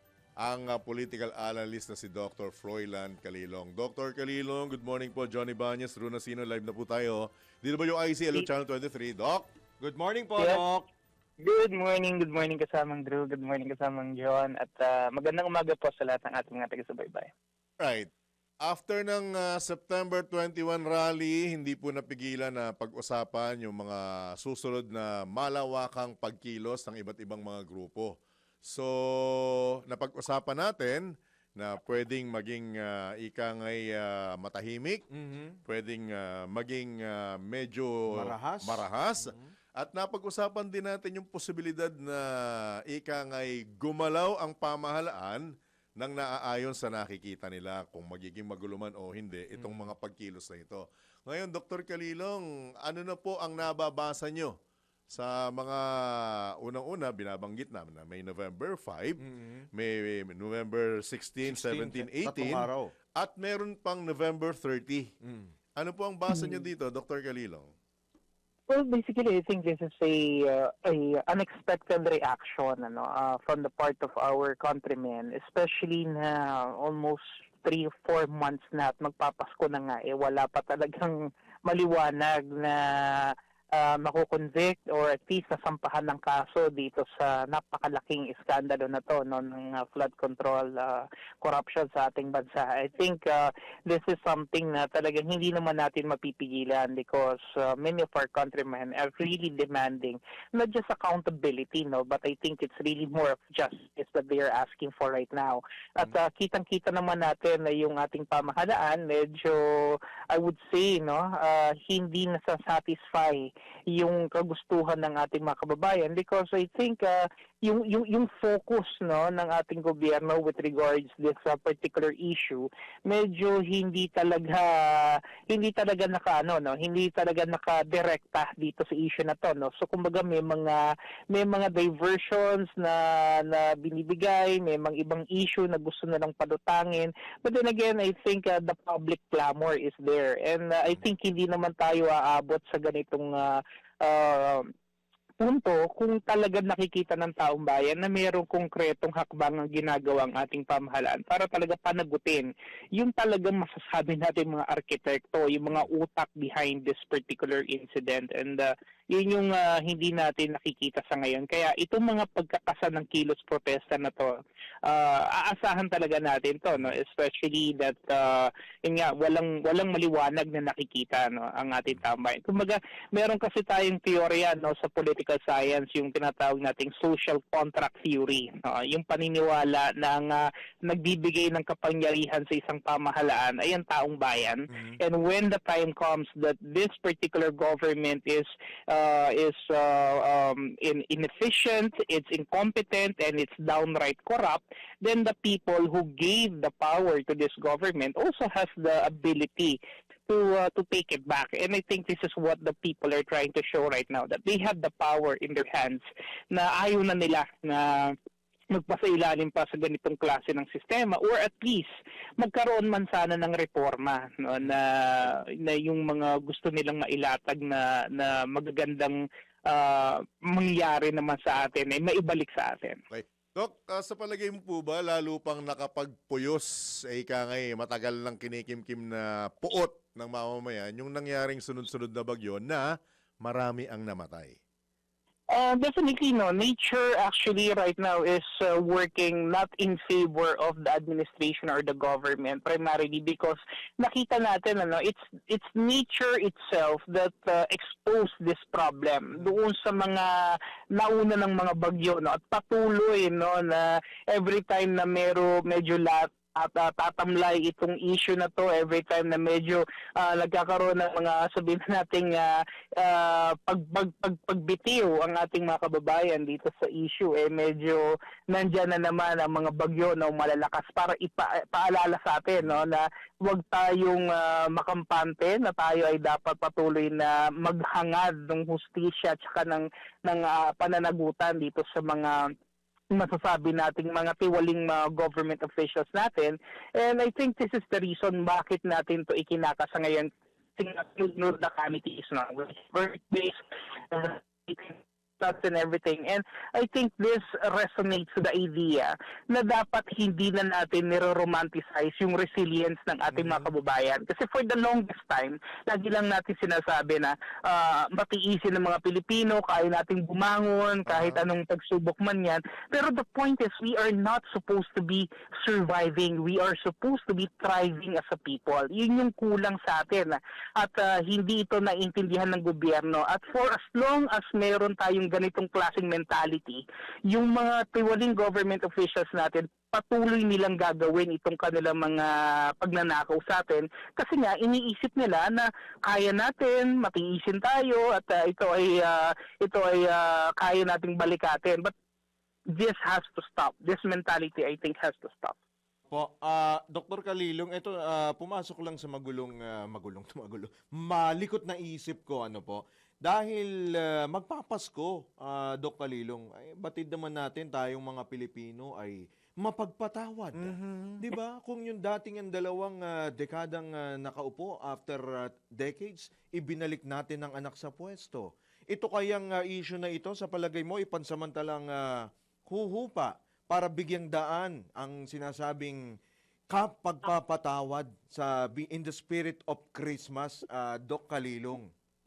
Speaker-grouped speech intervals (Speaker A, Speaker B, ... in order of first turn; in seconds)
Speaker A: 0.4-9.4, 17.8-18.1, 18.6-31.0, 31.6-35.0, 35.6-42.3, 42.9-45.4, 46.0-54.5, 55.1-59.2, 59.7-62.6, 63.2-65.1, 65.8-67.7, 223.1-232.9, 233.4-234.6, 303.4-303.6, 311.1-311.4, 360.6-361.3
Speaker B: 9.8-10.9, 35.1-35.6, 38.1-39.5, 49.6-49.9, 59.2-59.7, 61.4-62.9, 65.2-65.5, 346.1-376.0, 376.7-381.9
Speaker C: 11.4-17.3, 66.3-66.7, 68.7-144.6, 145.4-164.3, 164.8-208.2, 208.7-219.2, 219.7-223.0, 235.5-282.5, 283.1-341.9, 342.7-345.5